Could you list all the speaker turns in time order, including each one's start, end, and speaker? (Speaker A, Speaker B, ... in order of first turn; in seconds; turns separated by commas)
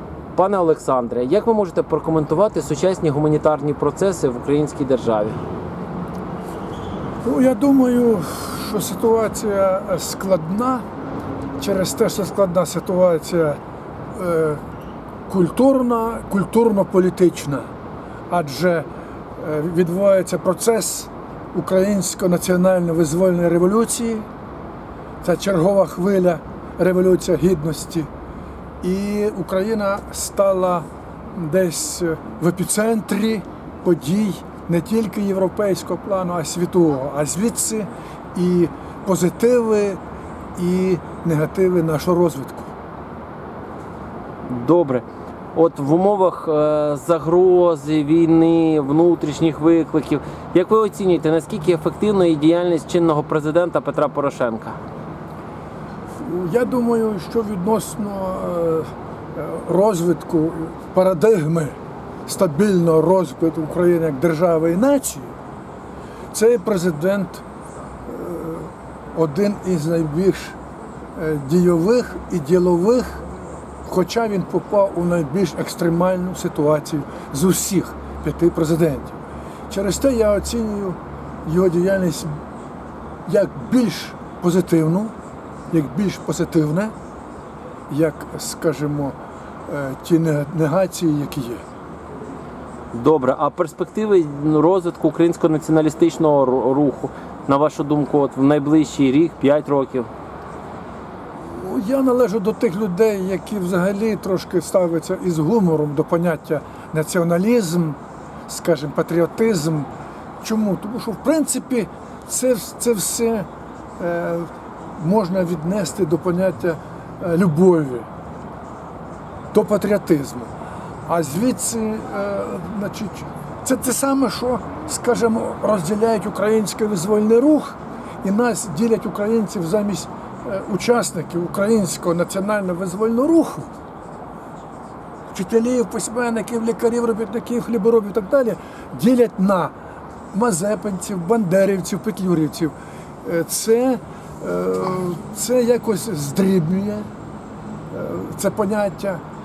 Speaker A: 0.3-5.4, Speaker B: 7.2-10.8, Speaker B: 11.6-13.6, Speaker B: 14.1-14.6, Speaker B: 15.3-17.7, Speaker B: 18.3-24.3, Speaker B: 25.2-28.1, Speaker B: 28.8-40.0, Speaker B: 40.6-42.7, Speaker A: 44.5-54.8, Speaker B: 56.2-65.3, Speaker B: 66.3-67.4, Speaker B: 68.1-70.6, Speaker B: 71.2-73.2, Speaker B: 73.8-79.2, Speaker B: 79.7-82.3, Speaker B: 83.3-85.1, Speaker B: 85.7-86.9, Speaker B: 87.9-91.6, Speaker A: 92.9-100.1, Speaker B: 101.5-109.9, Speaker B: 110.4-113.5, Speaker B: 114.0-118.1, Speaker B: 119.5-120.5, Speaker B: 121.1-133.7, Speaker B: 135.3-139.7, Speaker B: 140.3-147.1, Speaker B: 147.9-149.2